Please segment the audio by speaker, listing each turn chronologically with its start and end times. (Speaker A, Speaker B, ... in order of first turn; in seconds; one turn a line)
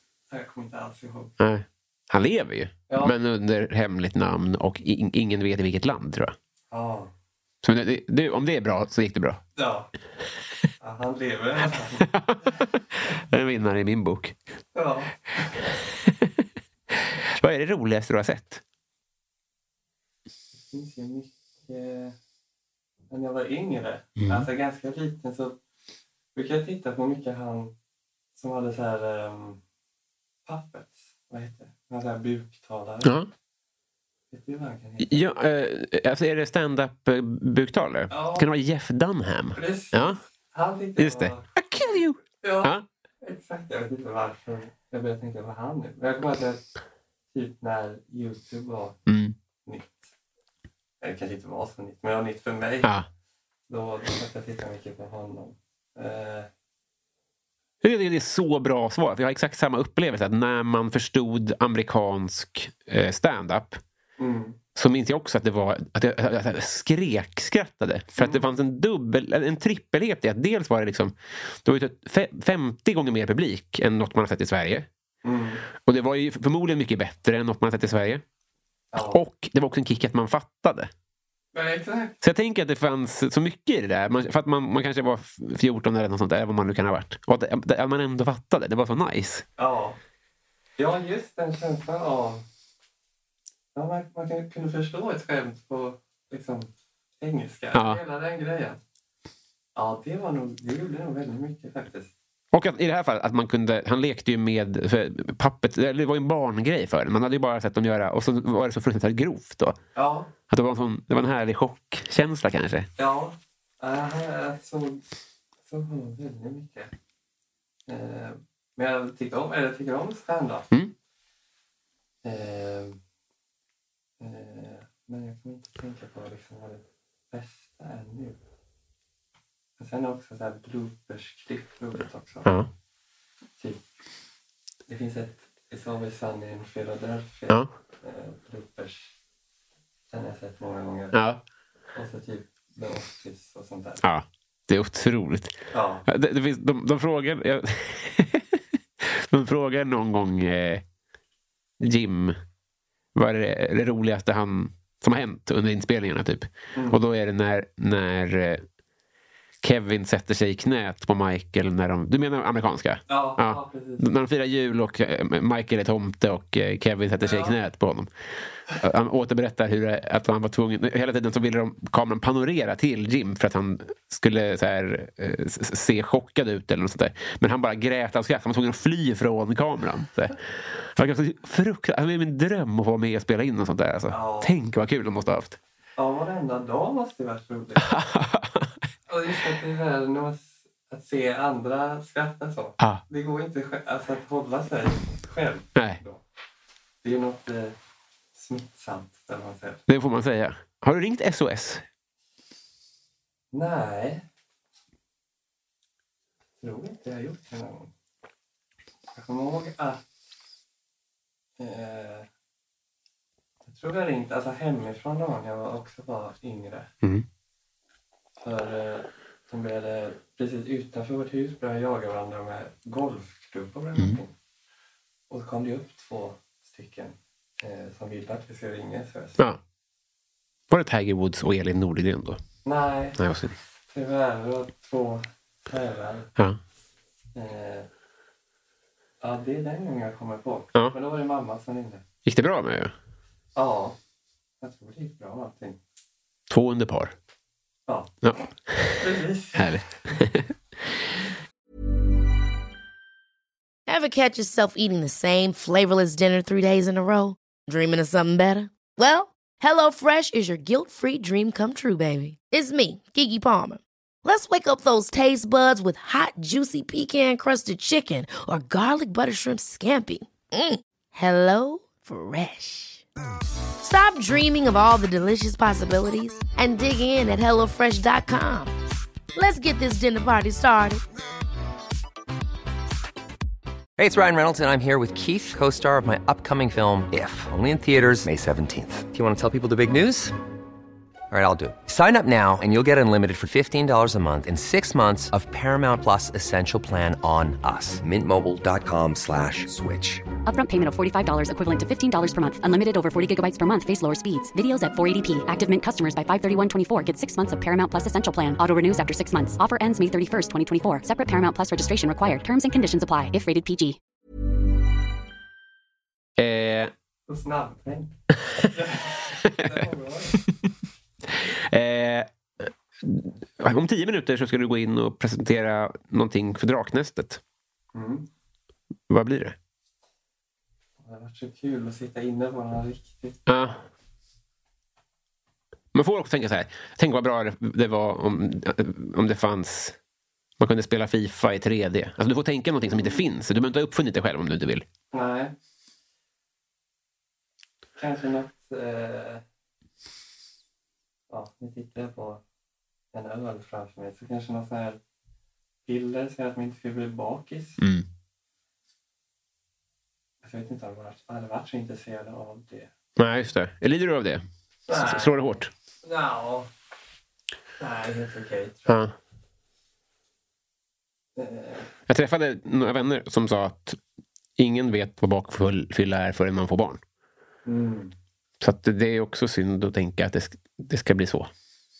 Speaker A: 0.3-1.3
Speaker B: 1.4-6.3
Speaker A: 2.9-3.1
Speaker A: 6.7-7.1
Speaker B: 7.6-9.4
Speaker A: 9.6-9.9
Speaker A: 10.8-12.6
Speaker B: 12.1-14.4
Speaker A: 14.7-15.7
Speaker B: 16.0-18.6
Speaker A: 20.5-22.1
Speaker A: 23.1-25.6
Speaker B: 24.2-24.5
Speaker A: 26.4-27.7
Speaker A: 28.4-29.6
Speaker A: 30.5-33.2
Speaker B: 33.0-33.3
Speaker A: 34.3-35.3
Speaker B: 35.0-40.2
Speaker A: 38.1-38.5
Speaker A: 39.5-41.5
Speaker B: 41.0-42.9
Speaker A: 42.4-46.6
Speaker A: 47.3-49.0
Speaker B: 49.1-49.4
Speaker A: 49.6-50.1
Speaker A: 51.0-52.9
Speaker A: 53.7-56.5
Speaker B: 57.8-63.8
Speaker A: 64.2-64.6
Speaker B: 64.8-74.9
Speaker A: 68.2-68.5
Speaker A: 75.2-75.7
Speaker B: 75.8-78.2
Speaker A: 78.9-79.2
Speaker B: 79.1-80.9
Speaker A: 81.5-82.2
Speaker B: 82.2-89.5
Speaker A: 89.6-90.0
Speaker A: 90.8-92.5
Speaker A: 93.8-98.8
Speaker B: 97.7-98.0
Speaker A: 99.8-102.1
Speaker B: 102.5-109.8
Speaker A: 110.0-110.3
Speaker B: 110.5-112.9
Speaker A: 113.0-115.0
Speaker A: 115.7-116.9
Speaker A: 117.9-120.7
Speaker A: 122.2-123.0
Speaker A: 124.2-128.4
Speaker A: 129.8-132.5
Speaker B: 132.4-132.7
Speaker A: 134.9-139.1
Speaker A: 140.1-141.2
Speaker B: 141.1-141.4
Speaker A: 141.9-144.0
Speaker B: 144.0-150.8
Speaker A: 145.7-146.1
Speaker B: 151.8-152.4
Speaker B: 153.2-158.7
Speaker A: 156.7-157.0
Speaker B: 159.6-168.1
Speaker A: 163.1-164.1
Speaker A: 167.2-167.6
Speaker B: 168.7-185.6
Speaker A: 184.1-184.6
Speaker A: 186.0-188.0
Speaker B: 187.8-188.8
Speaker A: 189.1-196.2
Speaker B: 195.8-196.0
Speaker A: 197.0-197.8
Speaker A: 198.3-199.8
Speaker B: 199.9-201.8
Speaker A: 203.5-204.2
Speaker A: 206.6-207.9
Speaker A: 209.1-210.1
Speaker A: 211.6-212.3
Speaker A: 213.6-216.9
Speaker A: 218.4-224.3
Speaker A: 225.3-229.4
Speaker B: 230.7-232.4
Speaker A: 232.7-233.2
Speaker B: 233.2-233.6
Speaker A: 233.9-236.3
Speaker A: 237.3-237.9
Speaker A: 239.2-242.0
Speaker B: 242.2-242.9
Speaker A: 243.6-244.0
Speaker A: 244.6-245.8
Speaker B: 246.5-247.2
Speaker A: 247.9-250.2
Speaker B: 248.2-250.5
Speaker C: 253.9-273.0
Speaker C: 273.8-278.7
Speaker C: 279.4-281.0
Speaker D: 284.0-290.4
Speaker D: 291.3-300.2
Speaker E: 300.5-314.0
Speaker B: 316.4-316.9
Speaker A: 317.3-320.4
Speaker B: 321.3-327.4
Speaker A: 327.9-328.3
Speaker B: 329.1-329.6
Speaker A: 331.0-333.4
Speaker B: 333.5-333.8
Speaker B: 335.9-340.0
Speaker B: 340.6-344.9
Speaker A: 342.9-343.2
Speaker A: 345.1-345.5
Speaker A: 348.0-349.4
Speaker A: 351.3-352.4
Speaker A: 353.1-355.0
Speaker A: 355.9-357.8
Speaker B: 357.8-358.1
Speaker A: 360.4-362.9
Speaker B: 363.2-365.7
Speaker A: 364.9-366.7
Speaker A: 367.8-369.0
Speaker B: 368.9-369.1
Speaker A: 371.4-371.9
Speaker B: 372.1-374.0
Speaker B: 374.6-377.0
Speaker A: 377.7-378.1
Speaker B: 378.6-381.5